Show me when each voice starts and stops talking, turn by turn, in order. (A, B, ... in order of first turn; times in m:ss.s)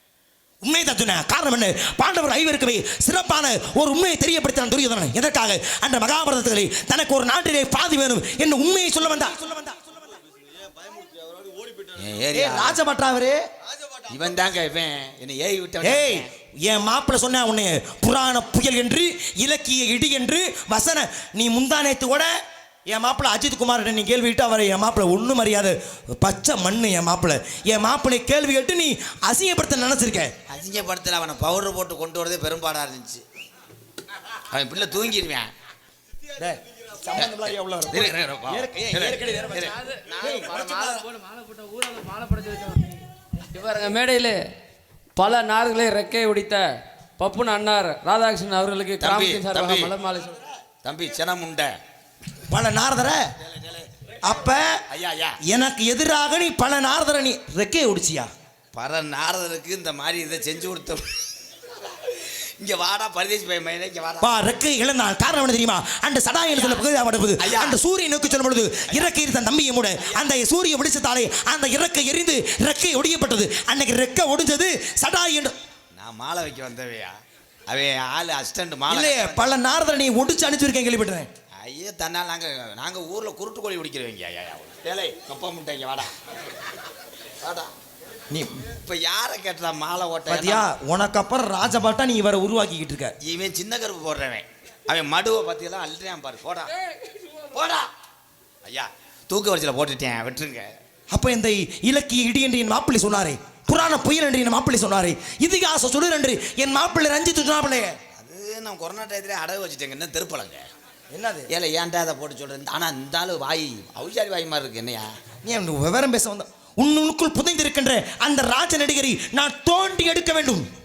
0:00.6-0:09.8 A
0:10.1-0:11.2 B
0:11.9-0:12.8 B
0:12.3-0:13.4 A
0:14.1-0:16.3 B
0:15.8-0:22.3 A
0:22.9-0:30.3 A
0:30.5-0:33.2 B
0:34.5-0:35.5 B
0:36.4-0:41.1 A
0:37.2-0:39.8 B
0:39.7-0:43.0 C
0:43.5-0:44.4 C
0:45.2-0:50.4 C
0:49.0-0:49.9 B
0:50.8-0:51.7 B
0:52.5-0:53.2 A
0:53.5-0:53.9 B
0:54.2-0:54.8 A
0:54.9-0:55.4 B
0:55.4-0:58.3 A
0:58.7-1:01.0 B
1:01.8-1:04.3 B
1:04.2-1:15.6 A
1:06.5-1:06.8 B
1:07.4-1:07.8 B
1:15.9-1:17.1 B
1:17.7-1:19.5 B
1:18.9-1:21.3 A
1:21.6-1:26.1 B
1:27.4-1:27.7 B
1:28.3-1:28.6 A
1:28.8-1:30.7 B
1:30.3-1:33.1 A
1:33.2-1:36.8 B
1:37.4-1:37.9 B
1:38.6-1:40.7 B
1:41.1-1:48.0 A
1:48.2-1:50.6 B
1:51.1-1:51.5 A
1:51.5-1:55.1 B
1:55.4-2:00.6 A